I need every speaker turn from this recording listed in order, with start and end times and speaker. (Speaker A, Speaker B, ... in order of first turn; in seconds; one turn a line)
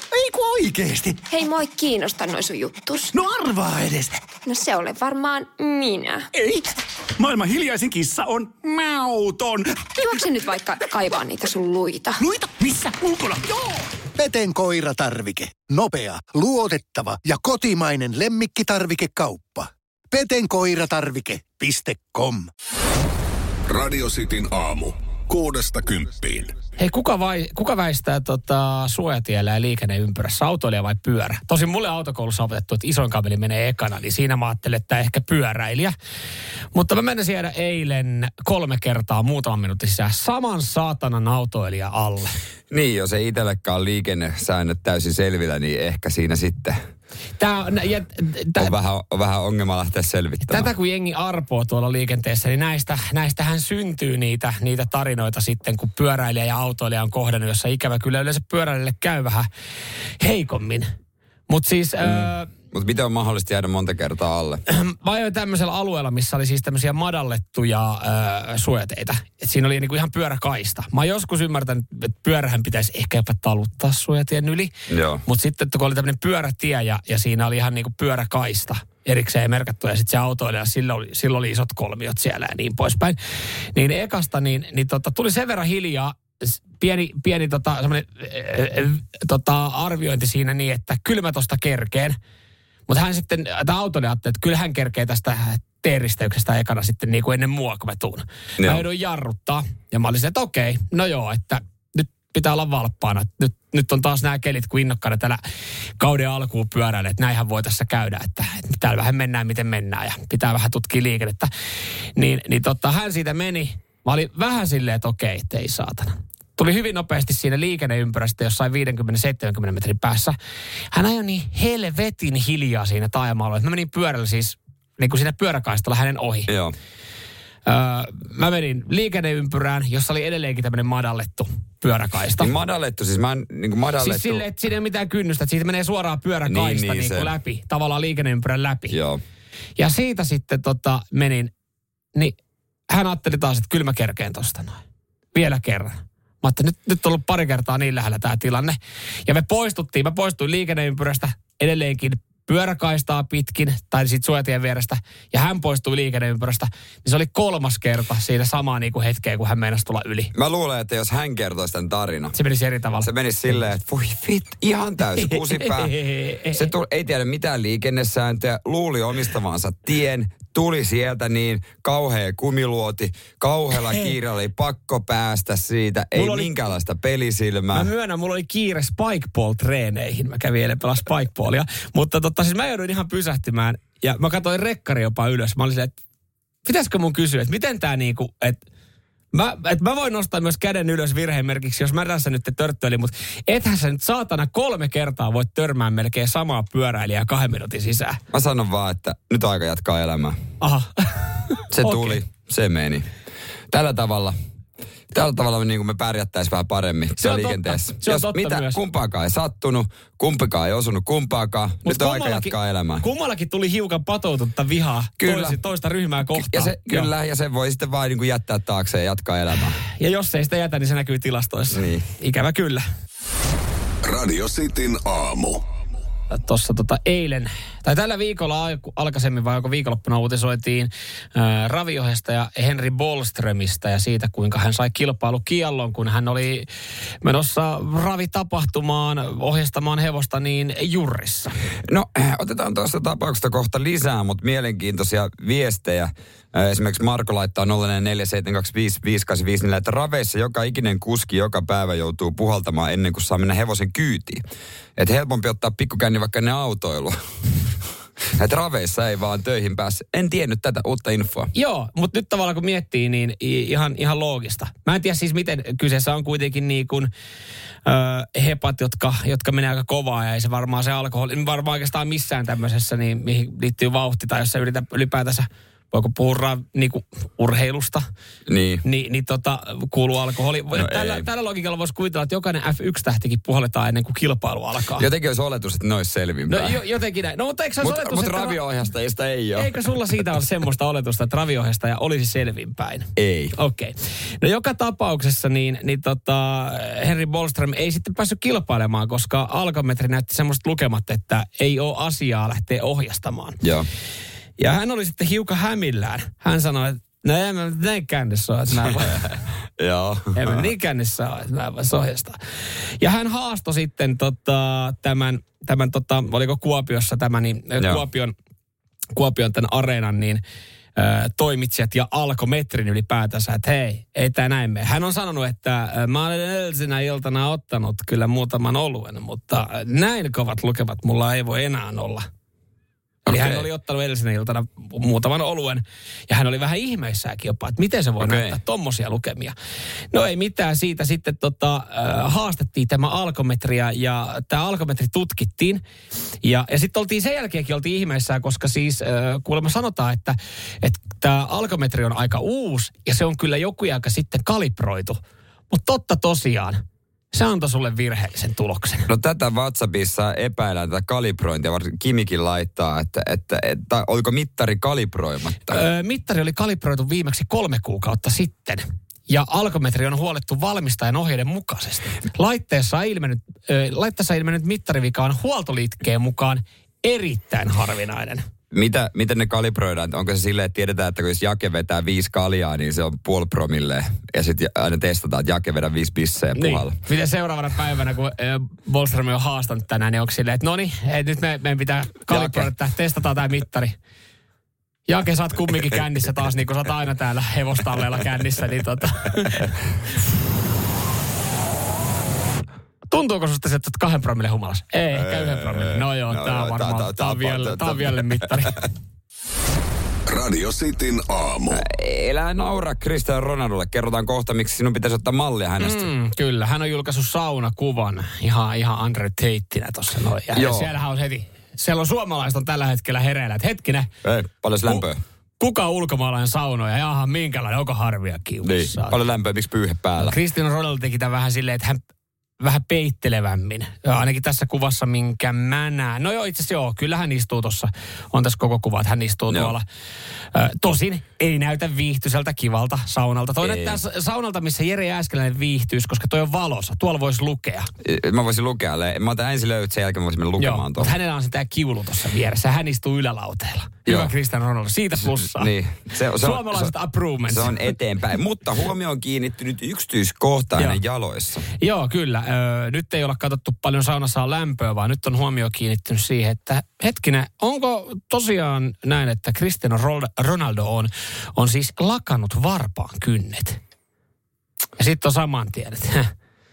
Speaker A: 0.1-1.2
Speaker B: 1.3-3.1
Speaker A: 3.1-4.1
Speaker B: 4.5-6.3
Speaker A: 6.3-9.8
Speaker B: 10.0-12.2
Speaker A: 12.2-13.8
Speaker C: 14.2-22.5
Speaker D: 23.7-26.5
Speaker E: 26.8-35.9
Speaker E: 36.7-42.3
Speaker F: 42.7-46.8
Speaker E: 47.4-48.7
Speaker F: 48.6-50.7
Speaker E: 50.4-59.5
Speaker E: 60.2-60.9
Speaker E: 61.5-62.5
Speaker F: 62.0-64.6
Speaker E: 64.7-74.7
Speaker F: 74.9-75.2
Speaker E: 75.3-83.2
Speaker E: 83.8-92.2
Speaker E: 92.9-105.4
Speaker F: 98.6-98.8
Speaker E: 106.0-111.5
Speaker E: 112.2-120.4
Speaker E: 120.9-126.5
Speaker F: 126.5-126.7
Speaker E: 127.7-132.5
Speaker F: 132.4-134.4
Speaker E: 134.0-139.0
Speaker F: 136.5-137.3
Speaker F: 138.9-139.2
Speaker E: 139.8-141.5
Speaker E: 142.9-144.8
Speaker E: 145.3-160.3
Speaker F: 160.3-162.3
Speaker E: 162.3-163.6
Speaker F: 163.0-166.0
Speaker E: 165.2-166.7
Speaker F: 166.5-177.9
Speaker E: 176.2-176.5
Speaker E: 177.7-185.9
Speaker E: 186.7-188.6
Speaker E: 189.3-198.2
Speaker F: 198.3-200.4
Speaker E: 200.6-202.2
Speaker F: 201.7-203.1
Speaker F: 203.7-204.4
Speaker F: 205.1-213.1
Speaker E: 207.2-208.8
Speaker E: 211.8-217.1
Speaker F: 215.2-215.6
Speaker F: 216.3-219.8
Speaker E: 220.0-222.9
Speaker F: 221.7-222.1
Speaker D: 224.0-225.7
Speaker E: 226.3-236.7
Speaker E: 237.2-241.6
Speaker F: 241.9-254.4
Speaker F: 255.0-257.2
Speaker F: 258.3-261.5
Speaker E: 261.6-267.1
Speaker E: 267.9-278.1
Speaker F: 278.5-278.8
Speaker E: 278.8-285.1
Speaker F: 280.8-281.2
Speaker F: 285.0-286.8
Speaker E: 286.5-288.6
Speaker F: 287.8-290.1
Speaker E: 289.6-303.6
Speaker F: 293.2-293.6
Speaker F: 303.6-303.9
Speaker E: 304.6-309.4
Speaker F: 308.8-310.7
Speaker E: 310.4-312.4
Speaker E: 313.0-318.3
Speaker E: 319.1-320.4
Speaker E: 321.0-332.3
Speaker F: 333.3-333.7
Speaker E: 333.3-339.6
Speaker F: 338.2-338.6
Speaker E: 340.1-345.8
Speaker E: 346.4-359.1
Speaker F: 359.1-365.8
Speaker E: 365.7-378.4
Speaker F: 378.7-387.0
Speaker E: 386.6-393.9
Speaker F: 392.3-392.7
Speaker E: 395.1-399.7
Speaker F: 399.4-399.8
Speaker E: 403.1-408.8
Speaker F: 405.1-408.9
Speaker D: 410.3-411.8
Speaker F: 411.7-416.1
Speaker E: 415.8-424.1
Speaker F: 420.5-420.9
Speaker F: 424.2-425.2
Speaker E: 425.6-429.1
Speaker F: 428.6-430.4
Speaker E: 430.2-432.0
Speaker E: 432.6-439.9
Speaker E: 440.5-447.9
Speaker F: 443.6-444.0
Speaker F: 448.0-451.1
Speaker E: 450.6-455.7
Speaker F: 454.1-454.3
Speaker F: 455.2-456.9
Speaker E: 456.4-457.9
Speaker F: 457.5-461.6
Speaker E: 461.8-473.8
Speaker E: 475.0-476.3